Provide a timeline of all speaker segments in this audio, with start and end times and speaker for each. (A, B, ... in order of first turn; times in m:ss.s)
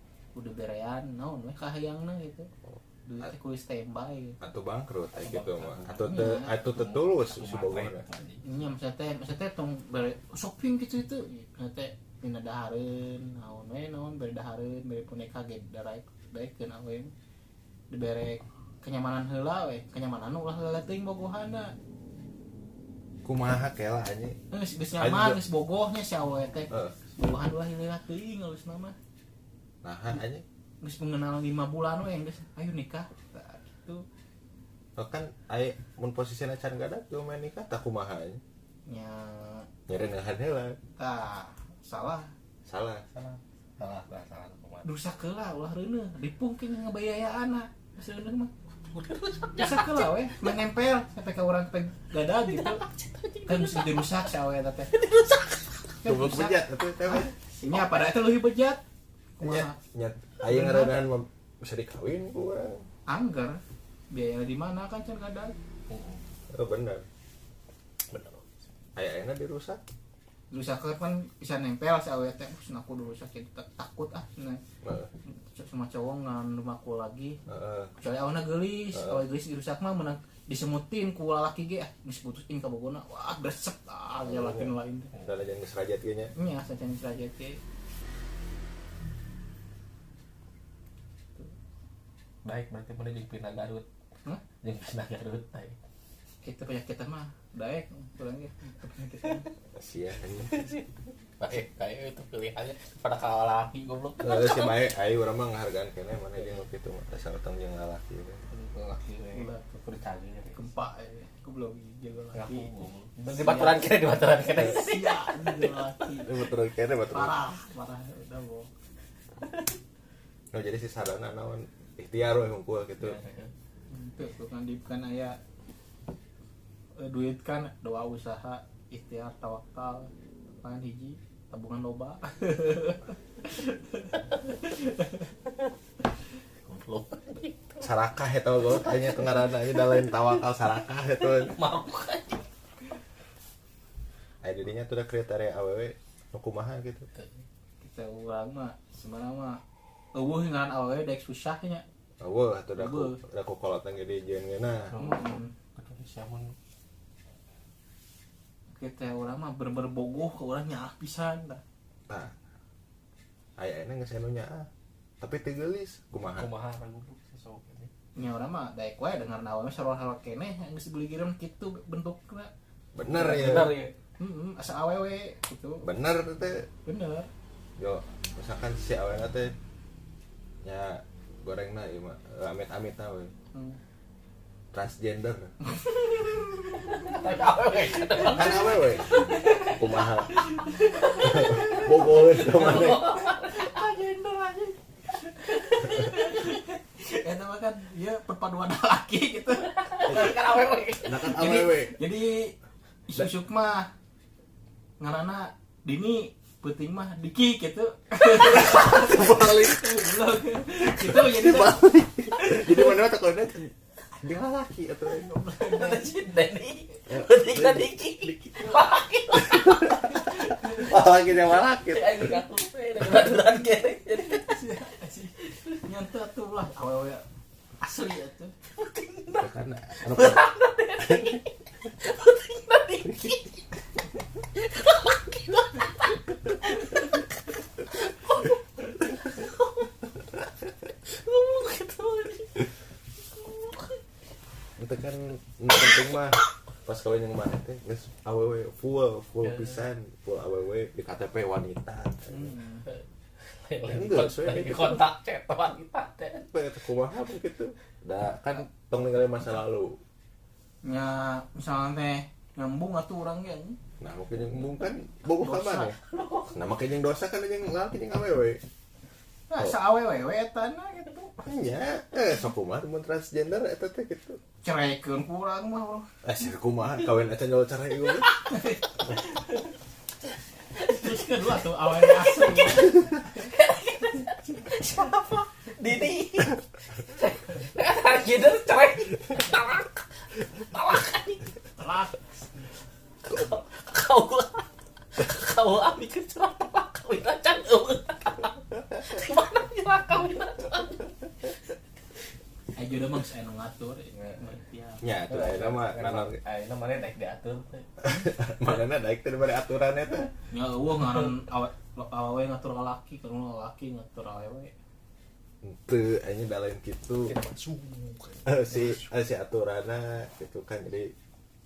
0:00.3-0:02.5 A
0:03.0-0:04.4 A
0:04.4-0:08.0 B
0:05.2-0:08.6 C
0:06.0-0:06.5 A
0:08.4-0:17.1 A
0:17.9-0:21.7 A
0:23.2-0:24.4 B
0:24.5-0:29.0 A
0:25.0-0:25.4 B
0:26.7-0:26.9 B
0:29.8-0:30.4 B
0:30.8-0:34.0 A
0:35.0-0:38.4 B
0:38.9-0:39.7 A
0:39.9-0:40.8 B
0:41.0-0:42.3 A
0:42.6-0:43.1 B
0:43.1-0:44.9 C
0:44.8-0:48.5 A
0:48.9-0:50.1 C
0:49.6-0:52.8 A
0:52.4-0:54.3 C
0:53.4-0:54.9 A
0:54.9-0:55.9 C
0:56.0-0:58.8 A
0:56.0-0:57.3 B
0:59.4-0:59.8 A
0:59.4-1:02.8 B
1:00.4-1:01.0 A
1:03.1-1:03.6 A
1:04.1-1:05.5 A
1:05.9-1:06.2 C
1:06.5-1:07.0 B
1:08.1-1:08.4 C
1:09.0-1:09.8 B
1:10.5-1:14.6 A
1:14.8-1:15.1 B
1:15.3-1:17.4 A
1:17.5-1:17.9 B
1:18.0-1:25.1 A
1:18.9-1:19.2 B
1:24.3-1:24.7 B
1:25.2-1:26.3 B
1:26.4-1:27.6 A
1:32.4-1:33.8 C
1:34.6-1:35.8 C
1:36.4-1:39.5 A
1:39.8-1:40.7 B
1:40.4-1:44.8 C
1:44.2-1:48.4 B
1:48.5-1:50.6 C
1:50.6-1:52.7 A
1:52.3-1:56.0 C
1:53.3-1:53.9 A
1:54.5-1:56.4 A
1:56.2-1:57.4 B
1:57.1-1:58.7 A
2:00.5-2:03.2 B
2:03.0-2:03.5 C
2:03.9-2:05.4 A
2:07.0-2:15.2 A
2:16.6-2:17.9 C
2:17.8-2:21.6 B
2:18.8-2:20.3 C
2:21.2-2:22.4 C
2:24.4-2:27.1 B
2:27.8-2:29.6 A
2:30.1-2:31.8 A
2:32.2-2:34.9 B
2:32.8-2:33.2 A
2:34.9-2:36.5 C
2:35.0-2:35.5 A
2:38.7-2:41.6 A
2:43.6-2:44.7 B
2:45.2-2:46.5 B
2:46.3-2:47.9 C
2:48.2-2:52.5 A
2:52.9-2:53.7 B
2:53.1-2:53.9 C
2:53.2-2:53.4 A
2:54.2-2:55.8 A
2:55.8-2:56.7 B
2:56.8-2:57.3 A
2:57.8-2:59.5 B
3:00.6-3:03.3 B
3:03.5-3:03.8 A
3:04.7-3:05.5 B
3:05.6-3:07.2 A
3:06.9-3:09.8 C
3:07.9-3:20.1 A
3:08.3-3:09.1 B
3:09.7-3:10.5 B
3:10.7-3:13.7 C
3:11.2-3:13.1 B
3:15.9-3:16.4 C
3:19.6-3:21.4 C
3:20.1-3:20.3 B
3:21.0-3:22.0 B
3:21.2-3:22.5 A
3:23.1-3:23.9 A
3:25.0-3:33.0 A
3:28.4-3:29.8 B
3:30.8-3:35.3 B
3:35.1-3:36.2 A
3:35.6-3:40.2 C
3:37.1-3:38.5 B
3:39.4-3:42.4 B
3:40.0-3:40.9 A
3:41.7-3:44.6 C
3:44.3-3:47.2 A
3:47.8-3:48.5 A
3:48.7-3:53.6 C
3:49.4-3:50.5 B
3:51.0-3:51.4 B
3:53.0-3:53.4 B
3:54.5-3:57.2 C
3:57.8-3:59.9 C
4:01.0-4:02.7 C
4:03.3-4:04.0 C
4:04.8-4:12.5 B
4:09.4-4:09.8 C
4:12.3-4:12.8 A
4:13.6-4:16.5 C
4:13.8-4:15.0 B
4:16.4-4:20.0 B
4:20.8-4:23.8 A
4:24.0-4:26.0 B
4:25.4-4:26.0 A
4:26.0-4:26.6 C
4:26.5-4:28.6 B
4:29.5-4:31.4 A
4:31.4-4:34.4 B
4:34.6-4:36.1 A
4:36.2-4:38.4 B
4:38.5-4:39.2 A
4:40.8-4:43.1 A
4:40.9-4:41.2 C
4:42.0-4:50.0 C
4:50.7-4:51.4 C
4:51.8-4:52.4 A
4:53.3-5:01.5 C
5:02.8-5:05.0 A
5:04.1-5:04.4 C
5:05.0-5:06.4 B
5:05.3-5:07.9 C
5:08.0-5:10.3 B
5:10.5-5:14.7 A
5:15.6-5:17.3 B
5:17.2-5:19.0 C
5:18.4-5:21.1 B